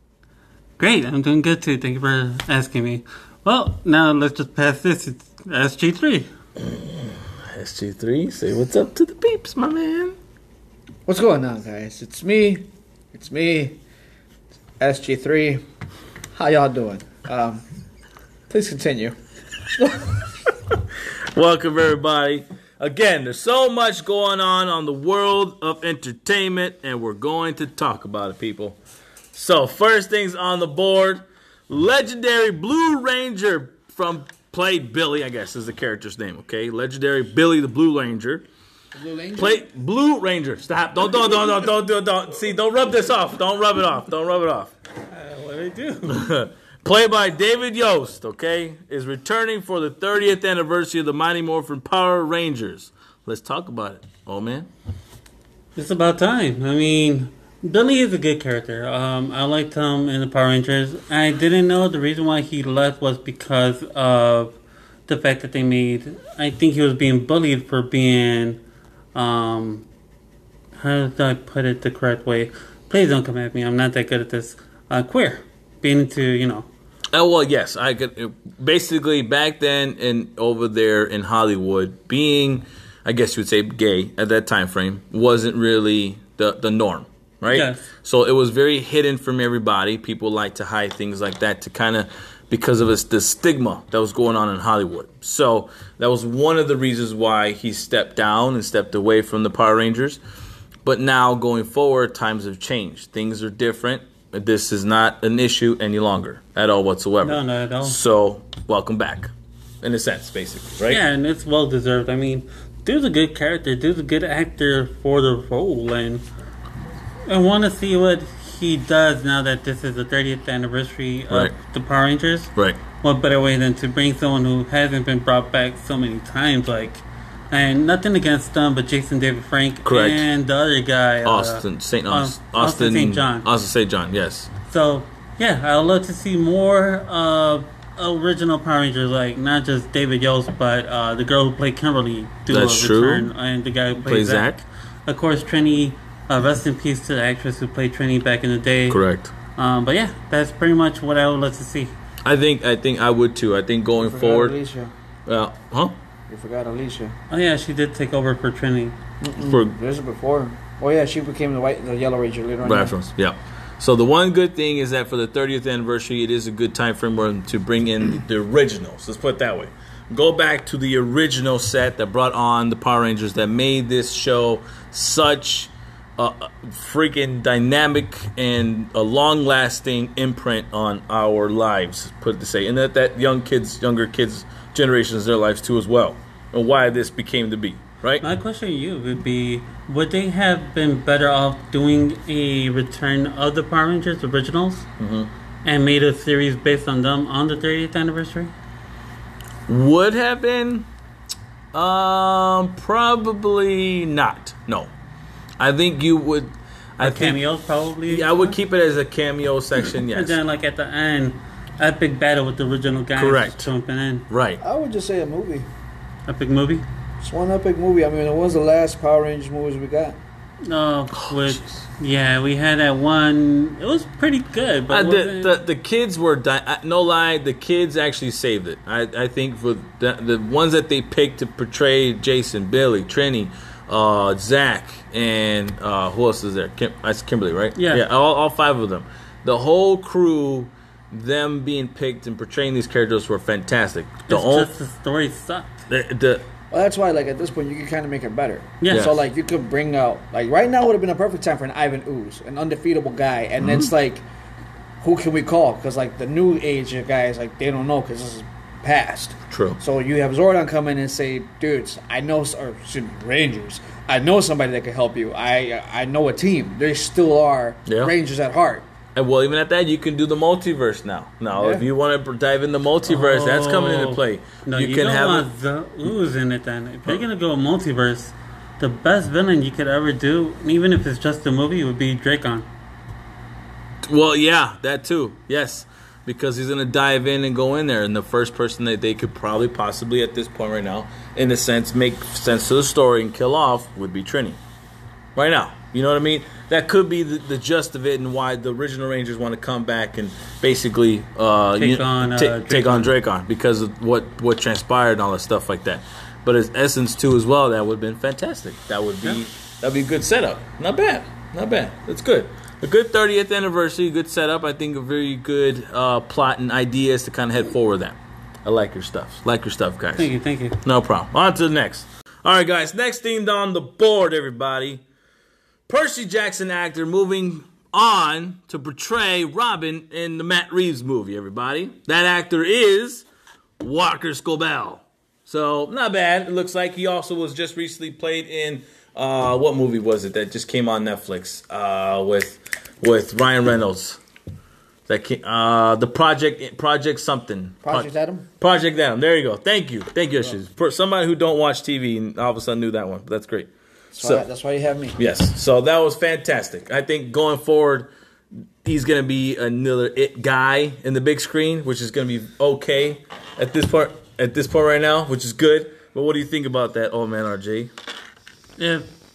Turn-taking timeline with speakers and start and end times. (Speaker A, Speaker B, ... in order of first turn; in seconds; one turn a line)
Speaker A: 0.8-6.3
Speaker B: 6.6-10.2
Speaker C: 11.1-13.8
Speaker C: 14.8-15.6
Speaker C: 16.3-17.6
Speaker C: 18.5-19.1
Speaker B: 21.3-28.8
Speaker B: 29.3-38.4
Speaker C: 38.9-39.6
Speaker B: 39.4-44.7
Speaker A: 45.1-46.3
Speaker B: 46.1-54.7
Speaker A: 55.8-64.6
Speaker A: 65.1-68.6
Speaker A: 69.1-69.8
Speaker A: 70.8-76.7
Speaker B: 77.1-100.2
Speaker A: 87.5-87.8
Speaker B: 100.8-111.0
Speaker A: 107.2-108.0
Speaker A: 110.9-116.2
Speaker A: 117.3-133.5
Speaker B: 129.8-130.2
Speaker B: 131.2-134.5
Speaker A: 134.7-149.0
Speaker B: 142.5-143.3
Speaker B: 144.0-144.6
Speaker B: 148.9-149.3
Speaker A: 149.5-151.9
Speaker B: 152.2-154.5
Speaker C: 154.0-154.9
Speaker B: 155.2-155.9
Speaker C: 156.3-157.1
Speaker A: 157.3-158.9
Speaker C: 159.2-162.9
Speaker B: 159.4-159.7
Speaker B: 162.6-188.2
Speaker A: 188.2-194.8
Speaker B: 195.0-195.3
Speaker A: 195.6-198.5
Speaker B: 199.7-200.9
Speaker B: 201.7-204.9
Speaker B: 205.6-207.4
Speaker A: 207.0-208.6
Speaker B: 208.1-210.4
Speaker A: 210.1-214.2
Speaker B: 213.2-213.7
Speaker B: 214.3-214.6
Speaker C: 214.6-215.7
Speaker A: 216.3-216.8
Speaker C: 217.2-220.2
Speaker A: 220.6-225.6
Speaker B: 221.2-221.6
Speaker B: 224.9-244.7
Speaker A: 237.8-238.0
Speaker A: 244.3-245.8
Speaker B: 245.9-246.4
Speaker C: 246.7-254.2
Speaker A: 248.8-249.1
Speaker B: 248.9-249.2
Speaker B: 253.6-253.9
Speaker C: 255.0-268.9
Speaker B: 259.5-259.8
Speaker B: 267.9-268.1
Speaker B: 269.1-275.5
Speaker C: 271.5-271.9
Speaker A: 273.1-282.7
Speaker B: 284.0-294.6
Speaker B: 295.3-320.3
Speaker A: 301.8-303.1
Speaker A: 320.1-320.8
Speaker B: 320.8-325.0
Speaker B: 325.9-333.2
Speaker B: 333.8-344.2
Speaker B: 345.1-354.4
Speaker C: 347.8-348.4
Speaker C: 354.1-355.2
Speaker B: 355.2-358.1
Speaker B: 358.8-367.9
Speaker A: 368.8-369.1